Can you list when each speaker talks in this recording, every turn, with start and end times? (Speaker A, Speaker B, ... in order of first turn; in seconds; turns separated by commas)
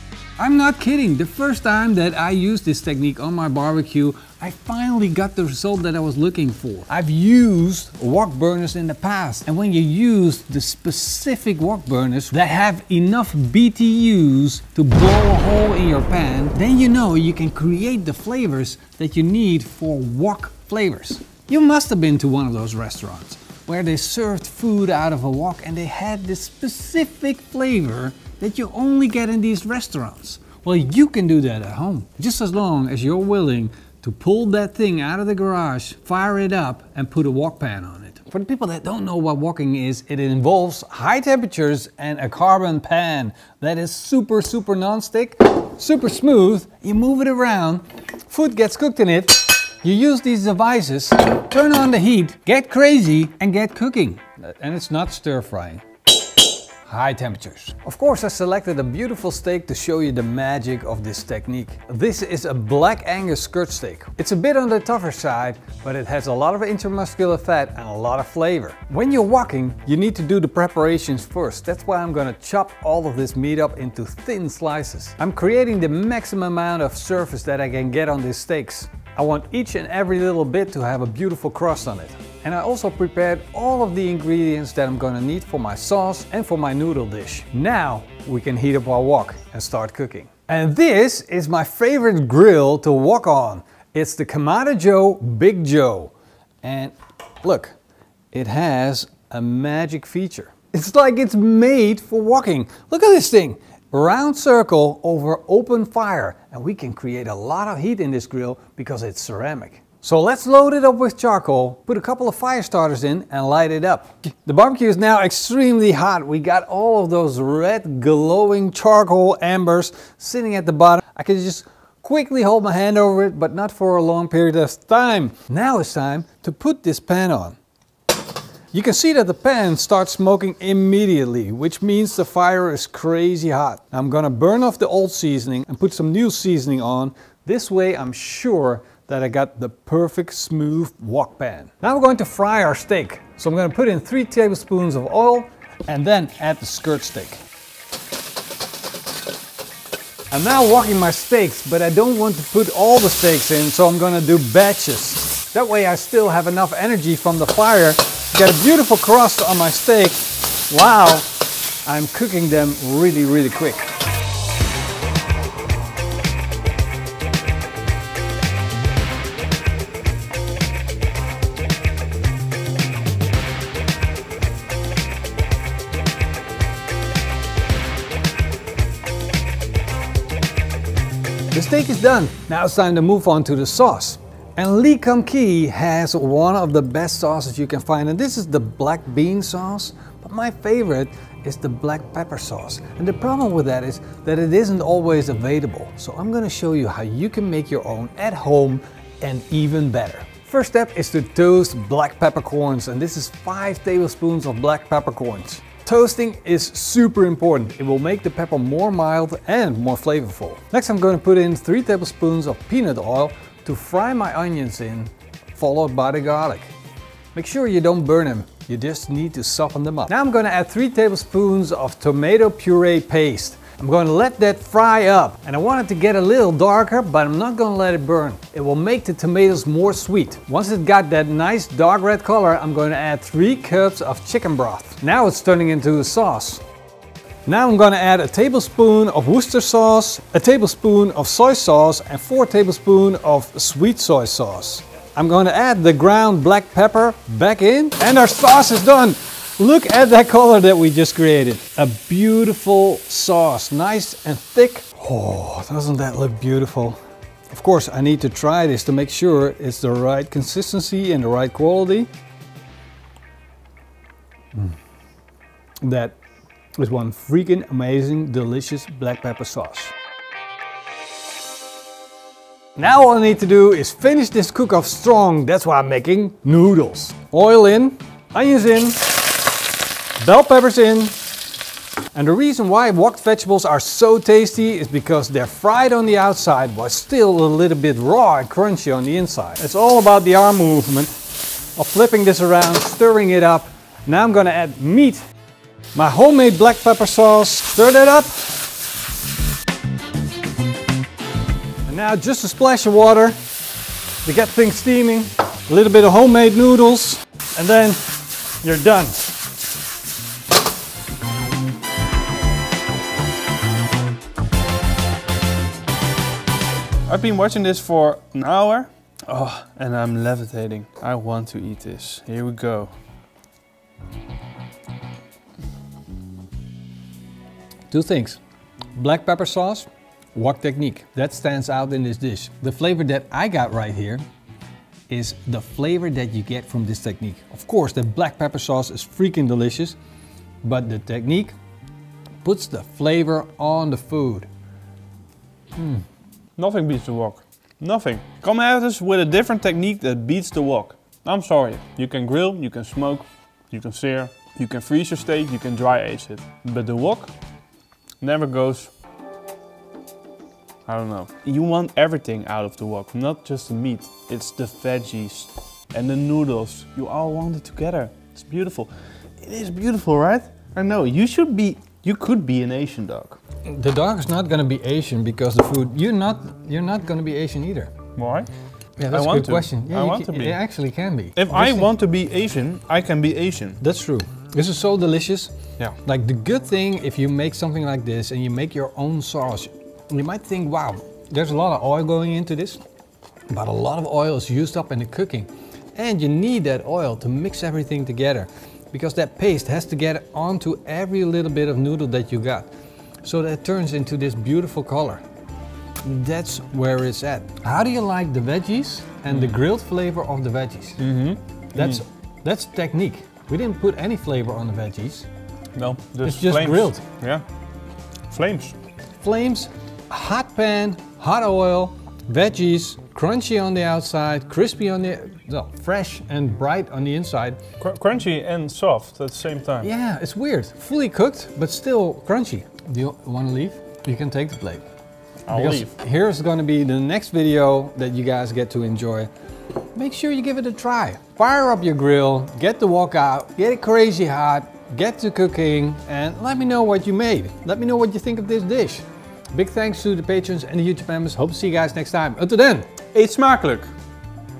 Speaker A: 0.4-55.8, Speaker A: 56.9-97.8, Speaker A: 98.3-127.6, Speaker A: 128.7-147.4, Speaker A: 150.3-163.9, Speaker A: 181.5-216.7, Speaker A: 217.3-236.6, Speaker A: 237.4-257.0, Speaker A: 257.5-262.1, Speaker A: 265.8-266.1, Speaker A: 266.8-269.9, Speaker A: 272.8-279.2, Speaker A: 280.2-281.1, Speaker A: 282.1-291.2, Speaker A: 291.8-295.2, Speaker A: 295.9-298.6, Speaker A: 301.9-303.4, Speaker A: 304.2-308.1, Speaker A: 308.6-309.3, Speaker B: 317.1-322.9, Speaker A: 327.9-328.4, Speaker A: 328.9-334.2, Speaker A: 335.1-339.9, Speaker A: 340.6-341.5, Speaker A: 342.4-344.5, Speaker A: 345.8-346.0, Speaker B: 346.6-357.3, Speaker B: 358.2-358.9, Speaker B: 360.9-373.4, Speaker A: 373.6-377.9, Speaker B: 378.1-378.5, Speaker A: 379.0-381.9, Speaker B: 379.1-380.6, Speaker B: 381.4-383.8, Speaker A: 383.8-392.8, Speaker A: 393.5-402.7, Speaker A: 403.2-405.2, Speaker A: 406.0-411.0, Speaker B: 409.3-409.6, Speaker B: 411.0-412.0, Speaker A: 411.8-415.2, Speaker B: 415.8-417.4, Speaker A: 416.2-417.0, Speaker B: 418.3-418.8, Speaker A: 419.2-427.6, Speaker B: 427.8-429.9, Speaker A: 429.8-434.9, Speaker B: 435.5-435.9, Speaker A: 435.5-439.3, Speaker A: 439.9-452.9, Speaker B: 453.1-453.9